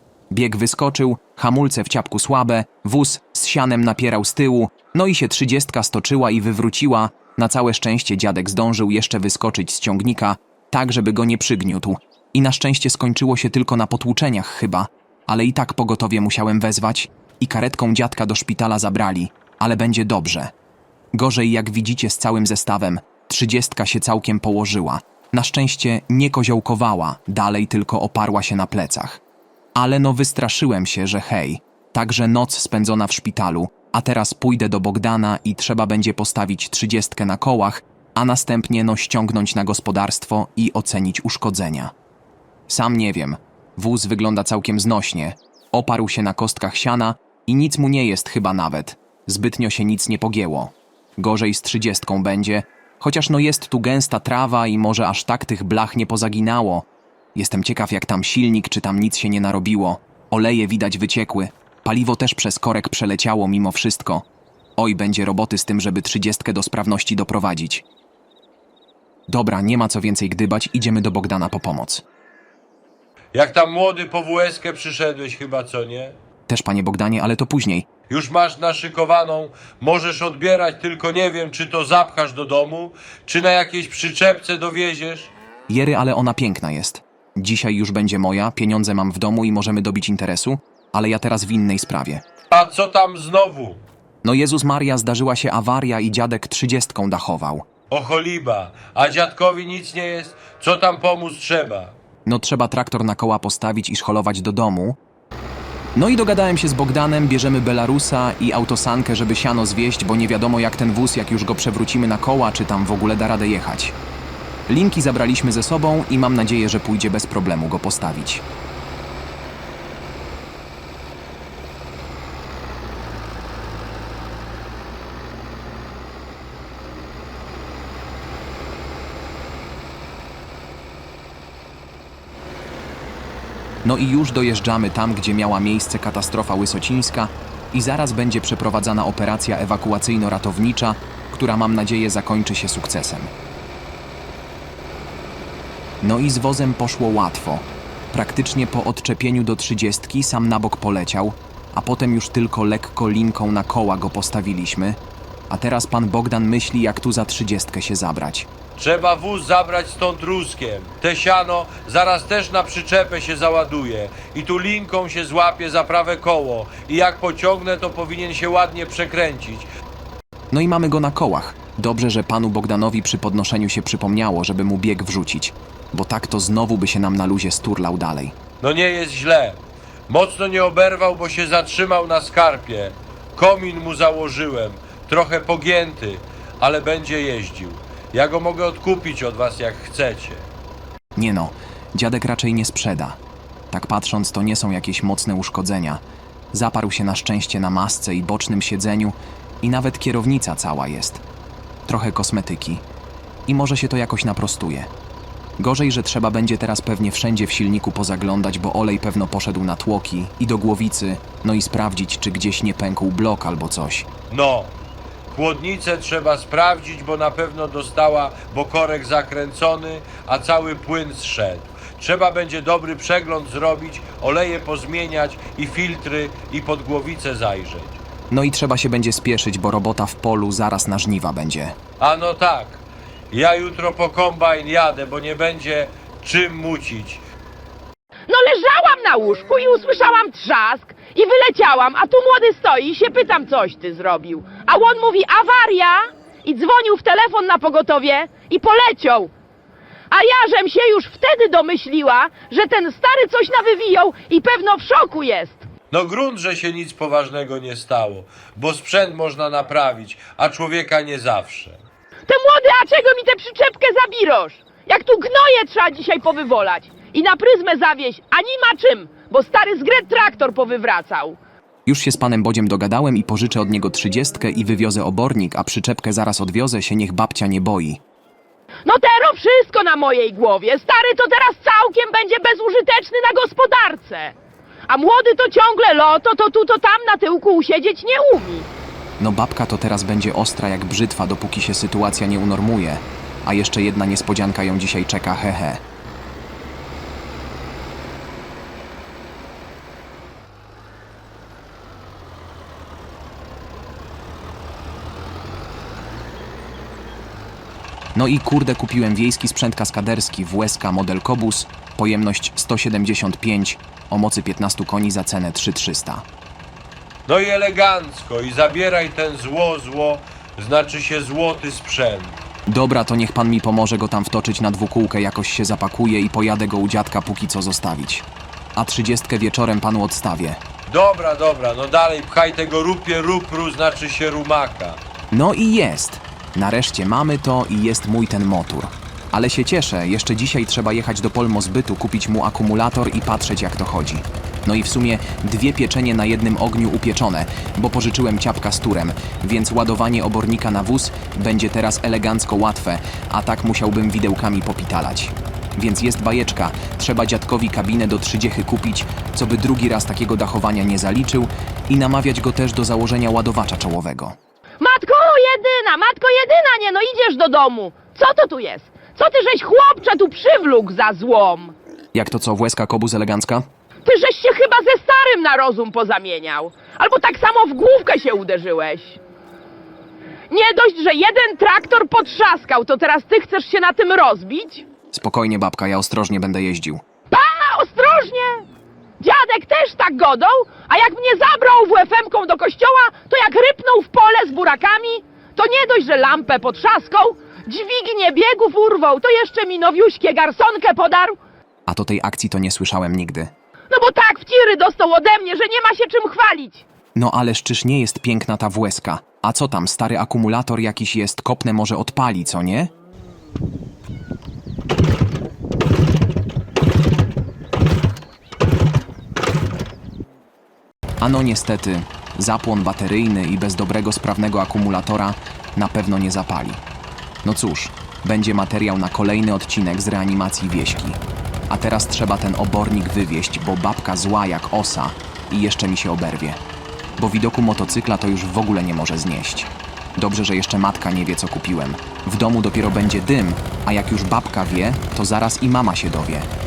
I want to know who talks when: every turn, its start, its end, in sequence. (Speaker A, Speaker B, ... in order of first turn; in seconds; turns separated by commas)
Speaker A: 0.3-20.5, Speaker A: 21.1-29.2, Speaker A: 29.8-41.9, Speaker A: 42.7-64.2, Speaker A: 64.8-67.8, Speaker A: 69.3-72.0, Speaker B: 73.3-76.2, Speaker A: 76.5-77.9, Speaker B: 78.1-85.3, Speaker A: 85.7-92.2, Speaker B: 92.5-93.8, Speaker A: 94.2-97.7, Speaker B: 97.9-102.0, Speaker A: 102.3-105.0, Speaker A: 106.0-114.0, Speaker A: 114.7-118.5, Speaker A: 133.8-143.3, Speaker A: 146.0-155.0, Speaker A: 155.5-158.5, Speaker B: 158.8-169.7, Speaker A: 170.5-178.4, Speaker B: 178.6-190.5, Speaker A: 191.2-193.2, Speaker A: 193.7-196.0, Speaker A: 196.5-201.2, Speaker A: 201.9-202.8, Speaker A: 203.5-204.9, Speaker A: 205.6-214.1, Speaker B: 214.3-214.7, Speaker B: 215.3-228.0, Speaker A: 228.3-231.8, Speaker B: 232.0-237.2, Speaker C: 238.3-249.3, Speaker C: 250.1-255.7, Speaker B: 255.9-261.8, Speaker C: 262.3-271.4, Speaker A: 271.9-278.0, Speaker C: 278.9-284.3, Speaker C: 284.9-288.7, Speaker A: 289.2-295.8, Speaker A: 308.1-316.2, Speaker B: 317.3-322.4, Speaker A: 322.7-330.6, Speaker B: 330.9-335.0, Speaker A: 335.3-364.4, Speaker C: 364.8-371.8, Speaker A: 372.1-373.7, Speaker C: 374.1-379.2, Speaker C: 380.5-384.9, Speaker A: 385.1-387.0, Speaker C: 387.3-388.7, Speaker C: 389.2-401.4, Speaker A: 401.9-403.5, Speaker C: 403.9-406.8, Speaker A: 407.2-412.9, Speaker A: 421.2-426.8, Speaker A: 427.4-436.6, Speaker A: 437.2-446.5